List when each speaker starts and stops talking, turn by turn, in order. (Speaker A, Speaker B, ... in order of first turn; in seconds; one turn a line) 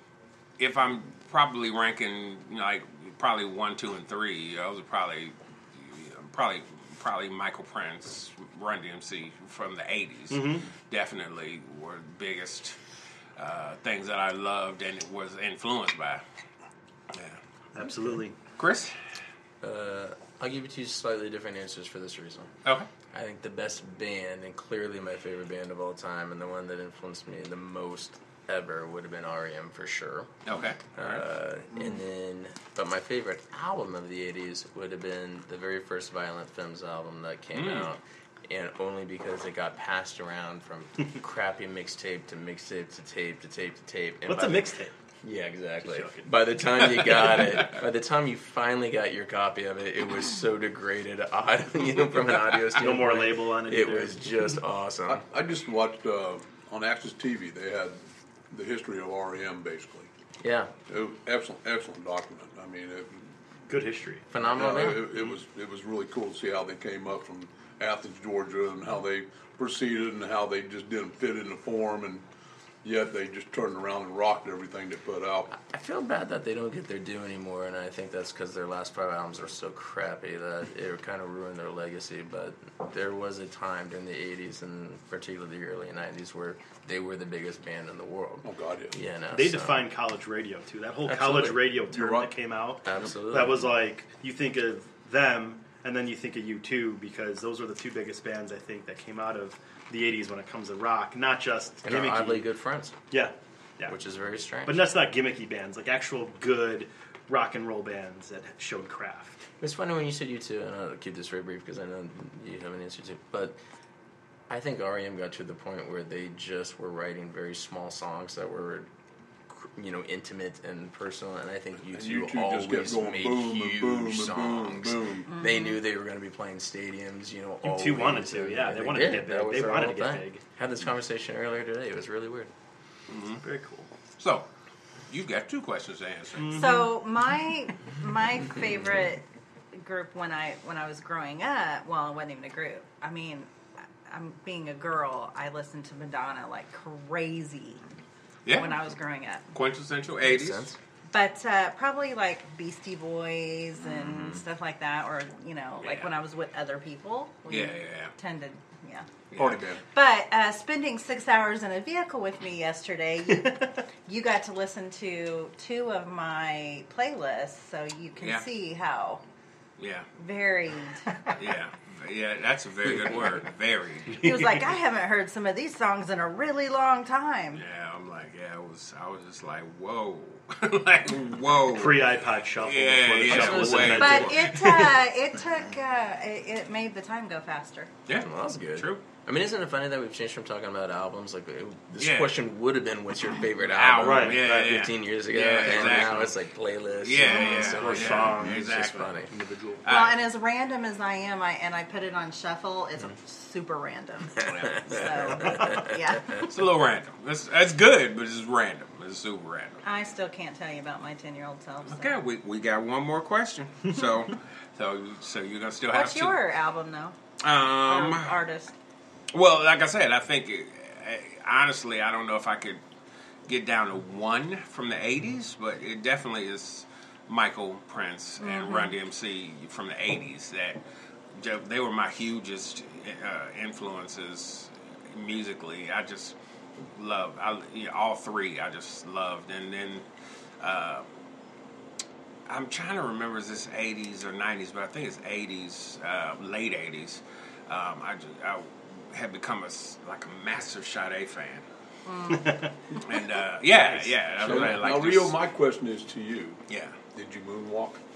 Speaker A: 0.6-12.8
Speaker B: 10.3-10.7
Speaker A: 13.4-16.2
Speaker A: 17.1-17.4
Speaker B: 17.7-18.4
Speaker A: 18.6-18.9
Speaker C: 19.6-22.5
Speaker C: 23.1-30.3
Speaker A: 30.4-31.2
Speaker C: 30.9-55.2
Speaker A: 37.5-37.9
Speaker B: 44.2-44.9
Speaker B: 45.8-46.3
Speaker B: 52.8-54.2
Speaker D: 55.1-58.0
Speaker D: 58.5-60.1
Speaker C: 60.4-60.7
Speaker D: 60.9-63.3
Speaker B: 63.7-64.3
Speaker C: 64.3-65.2
Speaker D: 64.4-72.2
Speaker D: 72.8-75.5
Speaker C: 75.5-89.9
Speaker D: 88.4-89.0
Speaker B: 89.3-102.4
Speaker C: 91.0-91.8
Speaker D: 91.9-92.3
Speaker C: 92.8-93.8
Speaker C: 101.8-103.0
Speaker B: 103.1-103.9
Speaker C: 103.9-104.9
Speaker B: 104.7-109.5
Speaker C: 109.6-113.6
Speaker C: 114.5-118.9
Speaker C: 119.5-132.5
Speaker D: 121.9-125.3
Speaker E: 125.3-125.8
Speaker B: 127.6-130.4
Speaker A: 133.1-133.4
Speaker B: 133.4-133.9
Speaker A: 134.2-134.5
Speaker A: 135.1-136.6
Speaker B: 136.4-136.9
Speaker E: 136.5-143.5
Speaker E: 144.1-147.8
Speaker A: 148.4-148.8
Speaker E: 148.5-149.5
Speaker A: 149.5-150.7
Speaker C: 150.2-150.8
Speaker E: 151.1-159.1
Speaker A: 155.8-156.1
Speaker A: 157.5-158.1
Speaker A: 159.3-159.6
Speaker D: 159.3-159.8
Speaker E: 159.9-169.2
Speaker B: 163.3-163.7
Speaker A: 169.8-170.1
Speaker E: 170.2-171.3
Speaker A: 171.3-174.3
Speaker B: 174.2-174.6
Speaker E: 174.2-177.6
Speaker A: 177.5-185.0
Speaker B: 181.7-184.5
Speaker C: 183.3-184.0
Speaker E: 183.9-187.9
Speaker A: 188.1-189.0
Speaker C: 188.1-199.3
Speaker A: 192.0-192.4
Speaker A: 193.7-196.3
Speaker B: 194.0-194.7
Speaker A: 197.0-199.2
Speaker E: 197.2-197.8
Speaker B: 197.8-198.6
Speaker B: 199.3-199.8
Speaker A: 199.8-200.2
Speaker E: 199.9-206.4
Speaker C: 204.6-205.8
Speaker A: 206.4-209.8
Speaker E: 209.8-212.2
Speaker A: 211.8-216.4
Speaker E: 215.9-217.1
Speaker A: 217.4-218.3
Speaker E: 217.8-218.7
Speaker A: 219.3-222.8
Speaker A: 223.5-230.8
Speaker E: 228.4-228.9
Speaker A: 231.3-236.3
Speaker A: 236.9-240.0
Speaker A: 240.6-241.1
Speaker A: 242.5-251.6
Speaker E: 252.1-252.6
Speaker B: 252.3-253.0
Speaker A: 252.9-255.4
Speaker B: 253.7-254.1
Speaker D: 254.4-256.6
Speaker A: 256.7-257.0
Speaker D: 257.1-258.0